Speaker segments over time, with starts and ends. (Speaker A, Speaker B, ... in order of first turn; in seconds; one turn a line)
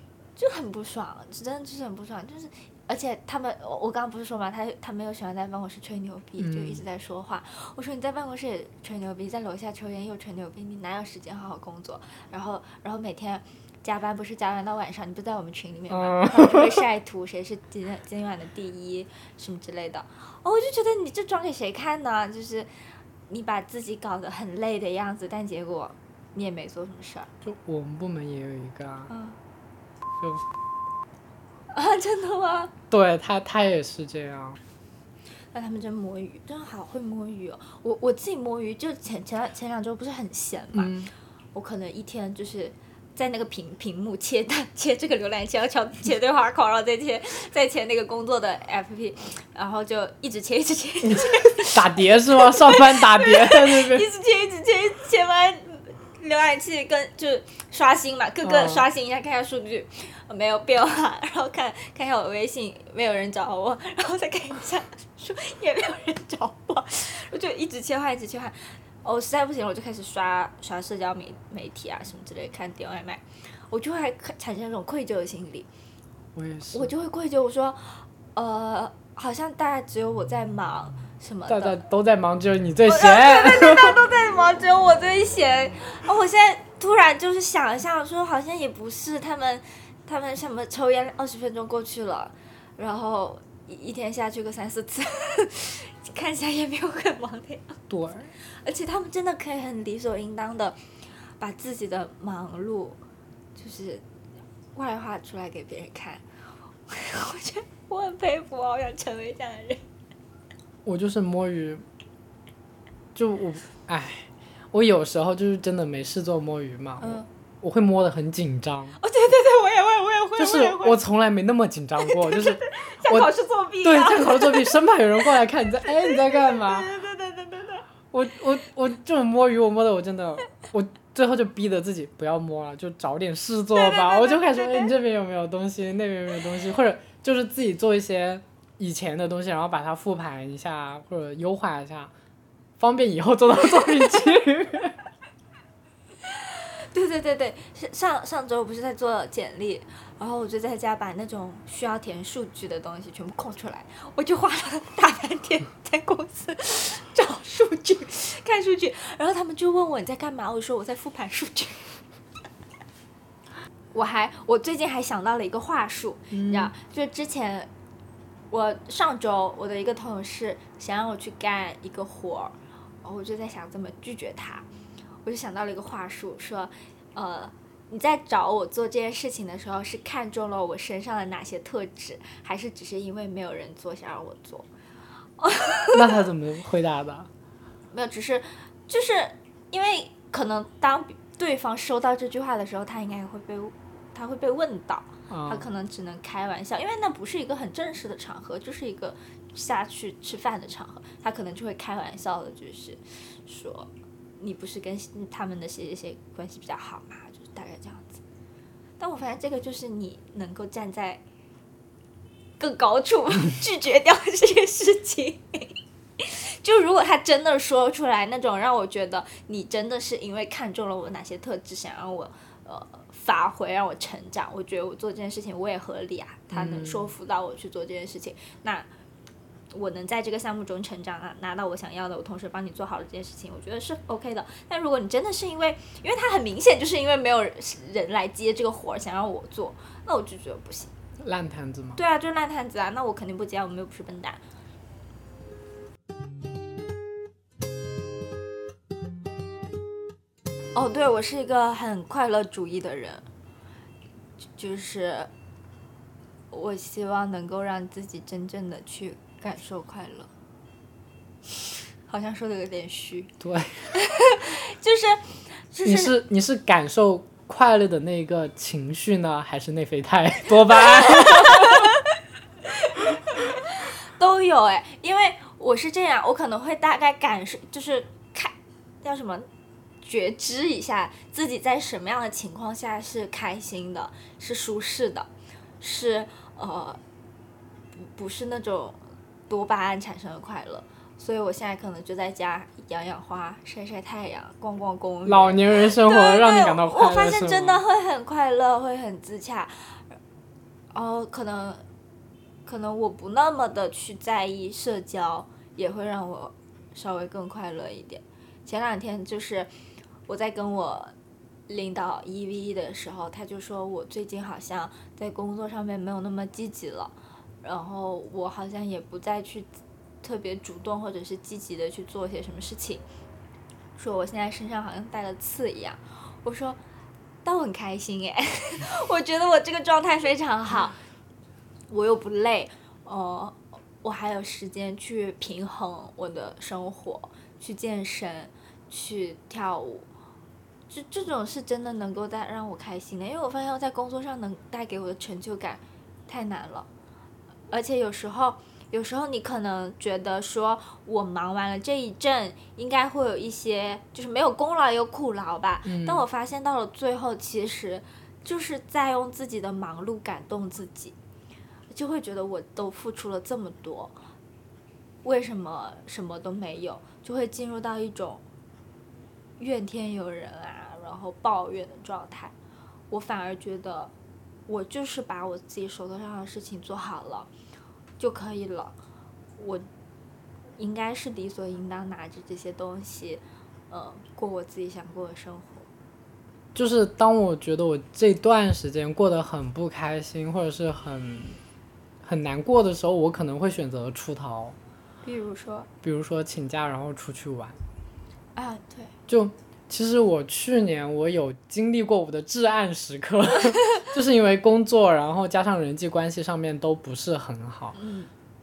Speaker A: 0.4-22.7
Speaker B: 6.4-6.8
Speaker B: 15.9-16.7
Speaker A: 23.3-27.3
Speaker B: 27.4-29.1
Speaker A: 29.1-29.4
Speaker B: 30.2-30.4
Speaker A: 31.7-32.7
Speaker B: 32.9-34.6
Speaker A: 35.5-40.9
Speaker B: 40.7-41.1
Speaker A: 41.5-75.7
Speaker B: 51.0-54.1
Speaker B: 58.4-58.9
Speaker B: 76.3-76.9
Speaker A: 76.7-81.8
Speaker B: 81.5-84.0
Speaker A: 82.9-97.8
Speaker B: 97.9-98.3
Speaker A: 98.4-100.8
Speaker A: 101.4-103.0
Speaker A: 103.6-104.0
Speaker A: 104.8-106.2
Speaker A: 106.9-109.9
Speaker B: 110.9-111.8
Speaker B: 113.2-119.0
Speaker A: 117.0-117.3
Speaker A: 119.0-121.0
Speaker B: 120.4-126.9
Speaker A: 122.1-124.7
Speaker A: 125.9-127.8
Speaker B: 128.1-142.1
Speaker A: 133.8-134.9
Speaker B: 142.8-145.0
Speaker A: 146.3-162.0
Speaker A: 163.9-167.7
Speaker B: 166.3-166.7
Speaker A: 168.5-174.7
Speaker A: 175.2-184.7
Speaker A: 185.4-186.2
Speaker B: 185.9-187.3
Speaker A: 187.9-208.2
Speaker B: 195.3-195.7
Speaker A: 209.0-211.2
Speaker A: 212.6-228.9
Speaker B: 226.5-227.1
Speaker A: 229.7-240.9
Speaker B: 241.2-242.0
Speaker A: 242.0-244.4
Speaker A: 250.7-253.2
Speaker A: 254.6-255.3
Speaker A: 256.5-260.3
Speaker A: 262.1-263.3
Speaker B: 263.4-263.9
Speaker A: 263.9-266.1
Speaker B: 265.9-271.9
Speaker A: 270.7-272.1
Speaker A: 272.7-279.5
Speaker A: 280.0-285.3
Speaker A: 285.8-287.0
Speaker A: 287.9-300.0
Speaker B: 295.2-297.8
Speaker A: 300.9-301.8
Speaker A: 302.6-309.7
Speaker A: 310.3-311.1
Speaker A: 311.7-319.7
Speaker A: 320.2-323.0
Speaker A: 324.0-326.8
Speaker A: 327.4-331.0
Speaker A: 331.9-340.1
Speaker A: 340.9-346.9
Speaker A: 347.7-361.2
Speaker B: 355.9-356.2
Speaker A: 361.9-364.2
Speaker A: 365.2-368.4
Speaker A: 369.6-372.5
Speaker A: 373.1-374.1
Speaker A: 374.7-377.5
Speaker A: 378.2-379.0
Speaker A: 379.6-379.9
Speaker A: 380.8-385.9
Speaker B: 386.8-391.6
Speaker B: 392.2-394.8
Speaker A: 395.2-395.9
Speaker B: 396.0-397.8
Speaker A: 398.6-399.1
Speaker B: 399.3-408.0
Speaker A: 408.0-408.3